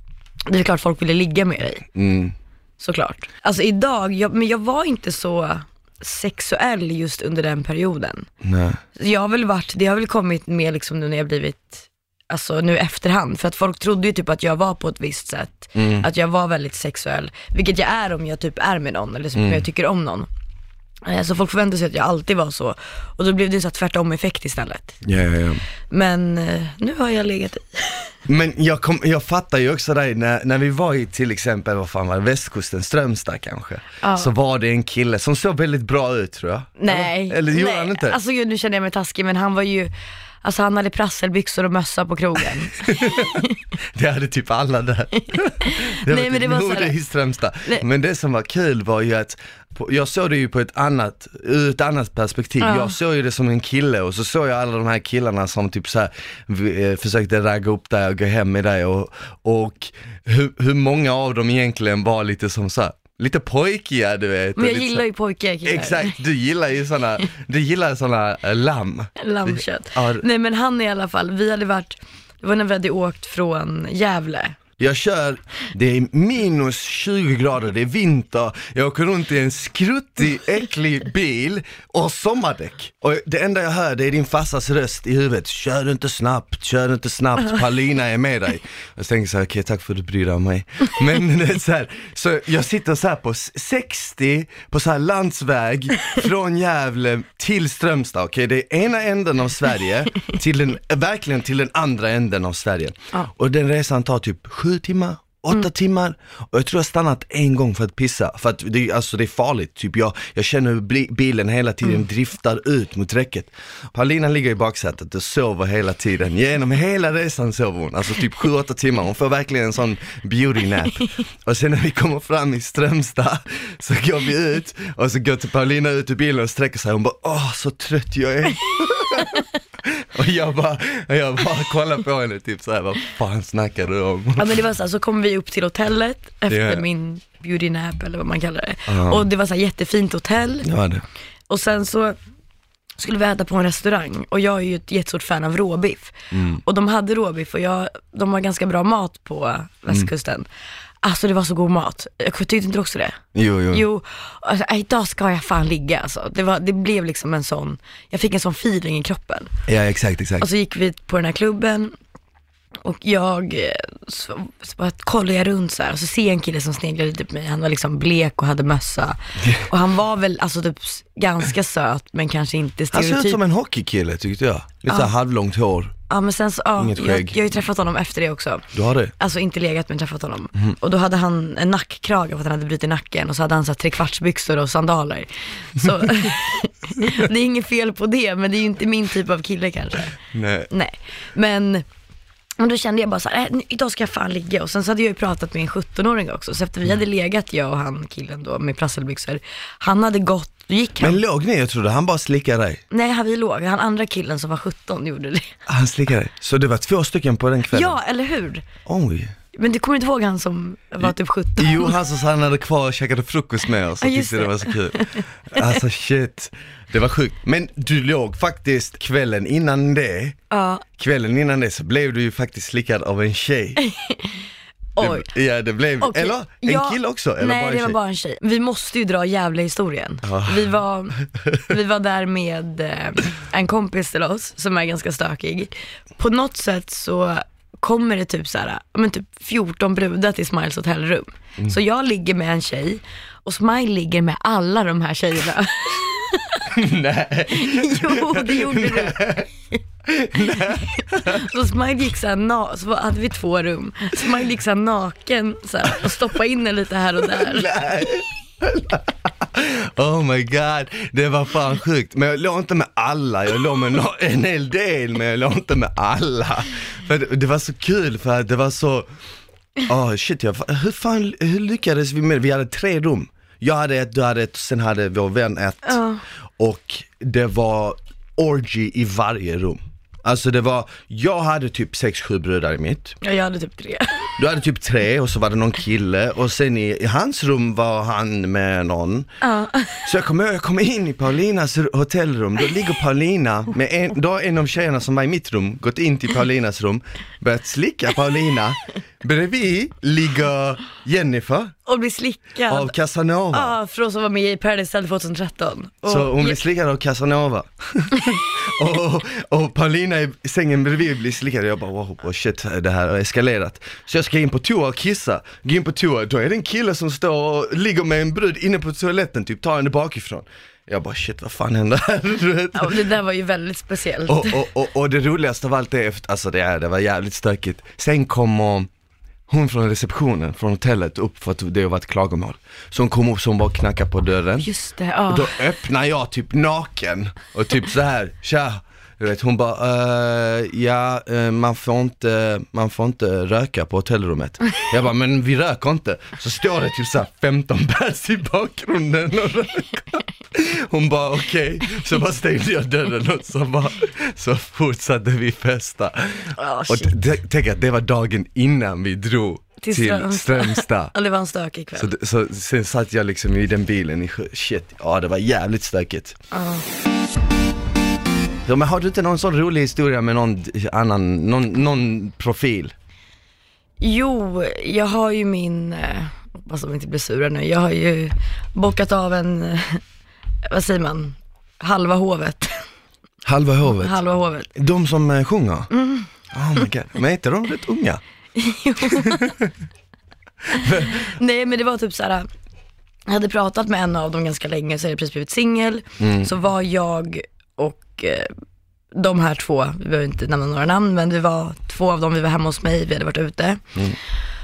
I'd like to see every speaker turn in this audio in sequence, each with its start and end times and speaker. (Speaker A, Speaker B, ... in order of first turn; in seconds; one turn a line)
Speaker A: 0.5-1.9
Speaker B: 1.9-2.4
Speaker A: 2.8-8.3
Speaker B: 8.4-8.8
Speaker A: 8.9-20.3
Speaker B: 15.8-16.1
Speaker B: 19.3-19.6
Speaker A: 21.1-25.0
Speaker B: 25.0-25.6
Speaker A: 25.9-28.1
Speaker B: 28.2-38.2
Speaker A: 34.0-34.3
Speaker A: 36.8-39.9
Speaker A: 40.4-43.5
Speaker B: 42.7-65.0
Speaker A: 45.6-46.9
Speaker A: 52.6-52.9
Speaker A: 64.5-66.2
Speaker B: 65.6-70.2
Speaker A: 69.2-74.6
Speaker B: 74.8-134.6
Speaker A: 134.4-140.7
Speaker B: 136.5-136.8
Speaker B: 138.9-139.3
Speaker B: 140.6-141.0
Speaker A: 141.5-142.2
Speaker A: 143.0-150.5
Speaker B: 146.3-146.6
Speaker A: 151.0-153.2
Speaker B: 153.3-153.8
Speaker A: 153.7-159.5
Speaker B: 159.7-160.5
Speaker A: 160.4-161.9
Speaker A: 162.8-173.4
Speaker B: 169.4-169.7
Speaker B: 172.9-175.9
Speaker A: 176.1-190.1
Speaker B: 176.8-177.4
Speaker B: 178.7-179.1
Speaker B: 190.3-190.7
Speaker A: 190.7-191.8
Speaker A: 192.6-201.2
Speaker B: 201.0-202.8
Speaker A: 202.9-205.6
Speaker B: 205.7-207.9
Speaker A: 207.7-208.7
Speaker B: 208.8-209.3
Speaker A: 209.5-212.0
Speaker B: 211.0-220.4
Speaker A: 214.0-215.6
Speaker A: 220.5-220.8
Speaker B: 221.0-223.8
Speaker A: 223.8-224.4
Speaker A: 225.0-225.3
Speaker B: 225.0-228.0
Speaker A: 226.0-246.7
Speaker B: 230.2-230.7
Speaker B: 246.7-249.5
Speaker A: 247.5-249.2
Speaker B: 250.0-251.5
Speaker A: 250.4-257.7
Speaker B: 257.2-269.1
Speaker B: 269.8-276.0
Speaker A: 275.8-276.2
Speaker B: 276.6-283.2
Speaker A: 283.2-284.4
Speaker B: 284.4-289.3
Speaker A: 289.4-290.1
Speaker B: 290.0-301.7
Speaker A: 301.9-302.9
Speaker B: 302.7-303.8
Speaker A: 303.5-306.6
Speaker B: 306.1-323.0
Speaker A: 322.7-324.6
Speaker B: 324.3-328.9
Speaker B: 329.5-334.7
Speaker A: 334.6-335.6
Speaker B: 335.3-361.1
Speaker A: 356.6-357.1
Speaker A: 359.8-362.1
Speaker B: 361.9-366.4
Speaker A: 366.5-366.8
Speaker B: 368.6-372.9
Speaker A: 374.0-380.0
Speaker A: 380.6-382.9
Speaker B: 383.4-384.2
Speaker A: 383.9-384.7
Speaker B: 384.7-385.9
Speaker A: 385.9-386.3
Speaker B: 386.5-388.2
Speaker A: 388.6-389.6
Speaker B: 389.0-389.7
Speaker B: 390.7-391.3
Speaker A: 390.7-392.5
Speaker A: 393.3-398.5
Speaker B: 396.2-396.5
Speaker A: 399.1-403.9